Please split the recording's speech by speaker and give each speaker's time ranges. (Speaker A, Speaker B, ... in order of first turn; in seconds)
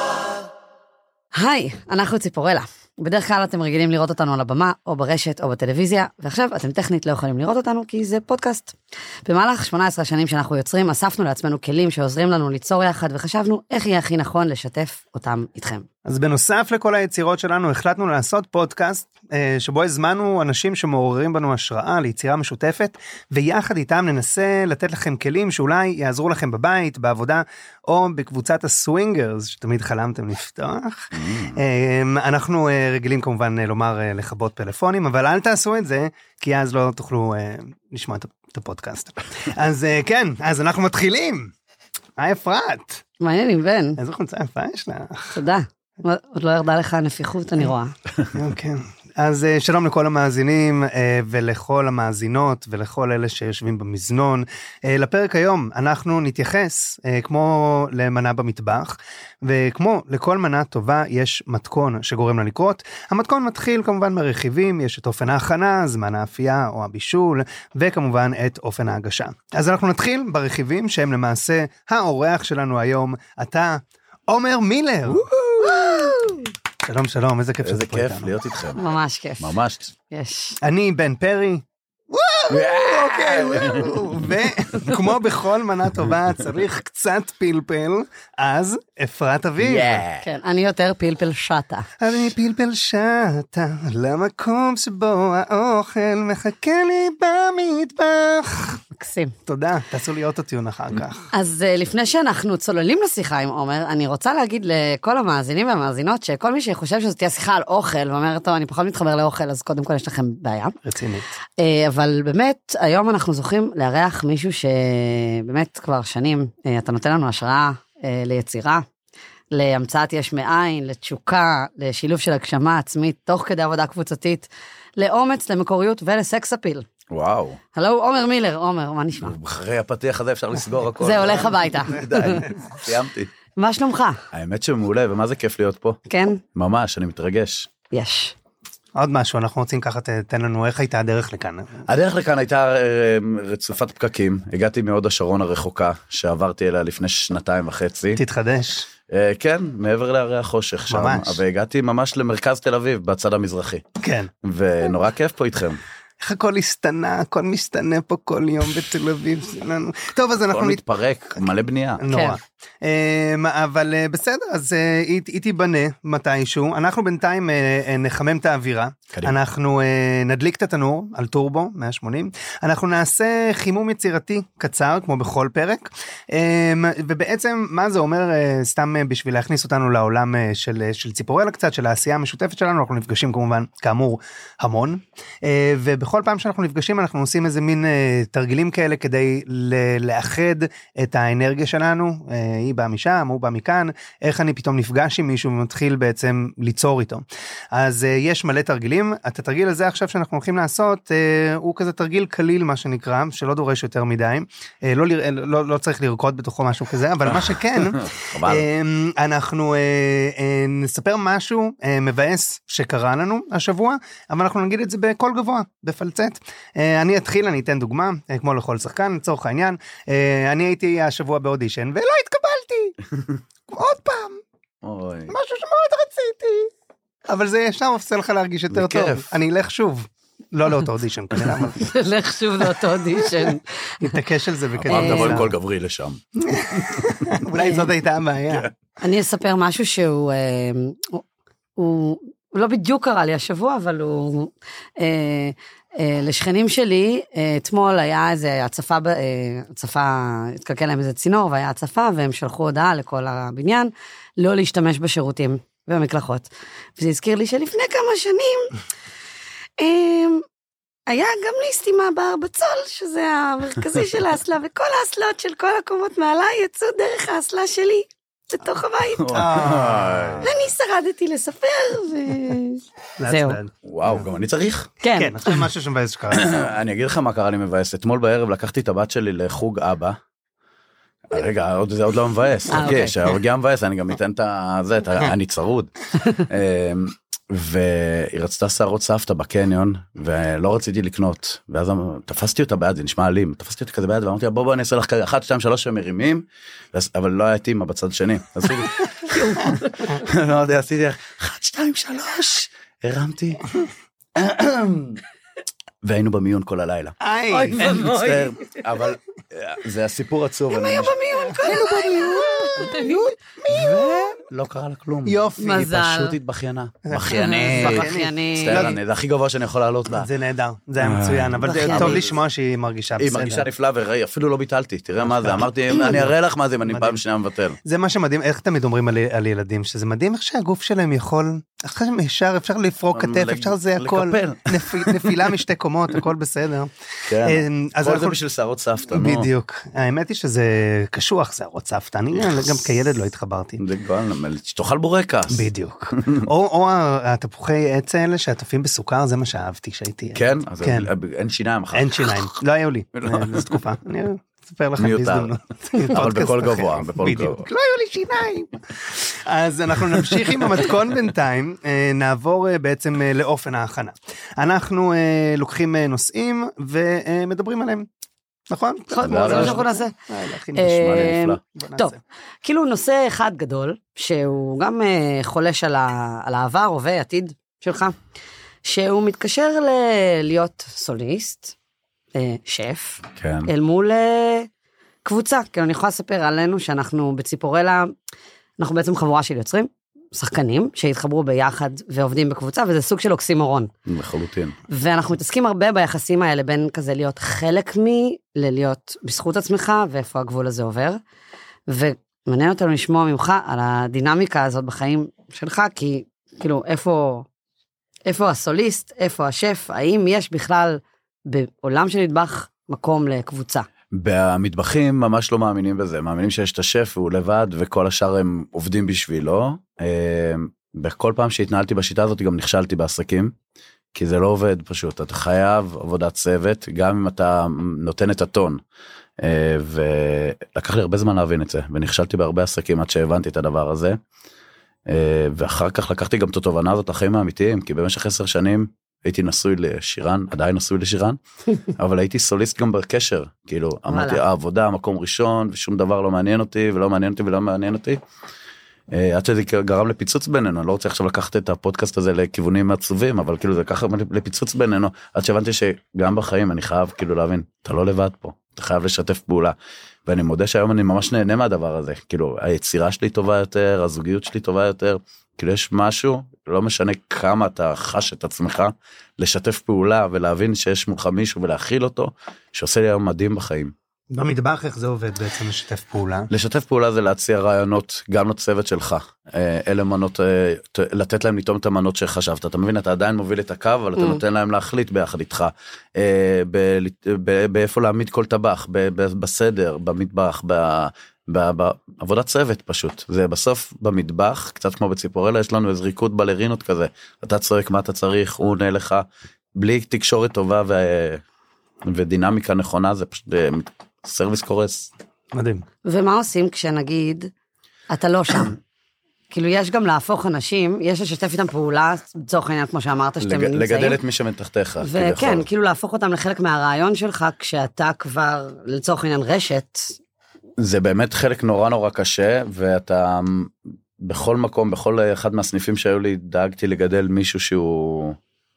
Speaker A: 1.3-15.9, 43.2-44.0, 45.3-47.9, 75.6-76.5, 78.8-79.5, 80.1-80.6, 90.2-91.9, 99.0-99.3, 101.3-110.8, 111.6-118.8, 119.5-126.9, 127.7-129.3, 131.0-132.6, 133.6-134.2, 136.1-136.4, 137.9-138.3, 162.1-162.4, 231.8-234.1, 234.9-235.4, 237.6-237.9, 239.0-241.2, 241.8-258.8, 259.8-260.4, 261.1-269.7, 270.4-273.6, 275.0-275.7, 282.7-283.3, 299.3-300.2, 307.5-308.8, 310.7-313.2, 315.6-316.4, 317.3-319.0, 321.7-322.2, 369.1-370.1, 370.8-378.1, 378.9-381.8, 382.4-384.7, 385.2-388.1, 388.8-393.9, 394.9-401.2, 401.9-407.5, 408.3-413.9, 444.1-444.4, 506.1-507.5, 508.1-508.8, 509.5-514.2, 515.0-520.2
Speaker B: 16.1-41.5, 42.2-43.0, 44.0-45.3, 48.3-76.3, 76.8-78.3, 80.6-90.0, 92.0-98.8, 99.5-101.3, 110.8-111.3, 139.0-141.8, 148.2-148.9, 150.9-151.4, 154.0-154.3, 156.2-160.8, 162.0-223.0, 223.7-224.4, 225.3-226.7, 227.3-231.8, 233.2-233.5, 234.0-235.5, 236.4-238.7, 269.3-270.5, 273.2-274.2, 275.1-276.8, 307.2-307.8, 311.6-314.4, 315.3-315.9, 317.1-319.0, 320.1-323.7, 325.2-326.3, 326.9-327.2, 327.8-336.9, 337.4-338.4, 339.1-343.8, 345.5-351.1, 351.9-368.1, 368.7-372.2, 474.3-476.5, 505.5-505.8
Speaker C: 31.1-31.6, 77.6-78.8, 79.4-79.9, 82.5-84.0, 89.6-90.3, 127.1-127.6, 129.2-133.3, 134.3-136.0, 136.6-137.7, 141.9-148.2, 149.1-153.8, 154.4-155.8, 160.5-162.0, 207.3-208.7, 224.8-225.3, 228.7-229.3, 234.8-236.2, 269.2-270.5, 273.9-274.9, 276.3-280.2, 281.3-303.6, 304.4-305.2, 306.0-307.2, 307.8-311.7, 312.8-313.1, 313.7-320.3, 321.0-322.3, 323.2-327.8, 333.1-335.5, 337.3-339.5, 343.8-346.5, 350.4-352.5, 353.2-353.8, 355.0-357.6, 369.2-369.9, 370.8-371.6, 383.4-383.7, 394.1-394.8, 414.1-423.5, 424.1-428.8, 429.4-434.2, 435.1-448.2, 449.1-459.8, 460.3-473.9, 476.5-501.4, 502.0-505.1, 513.4-515.7, 520.8-528.4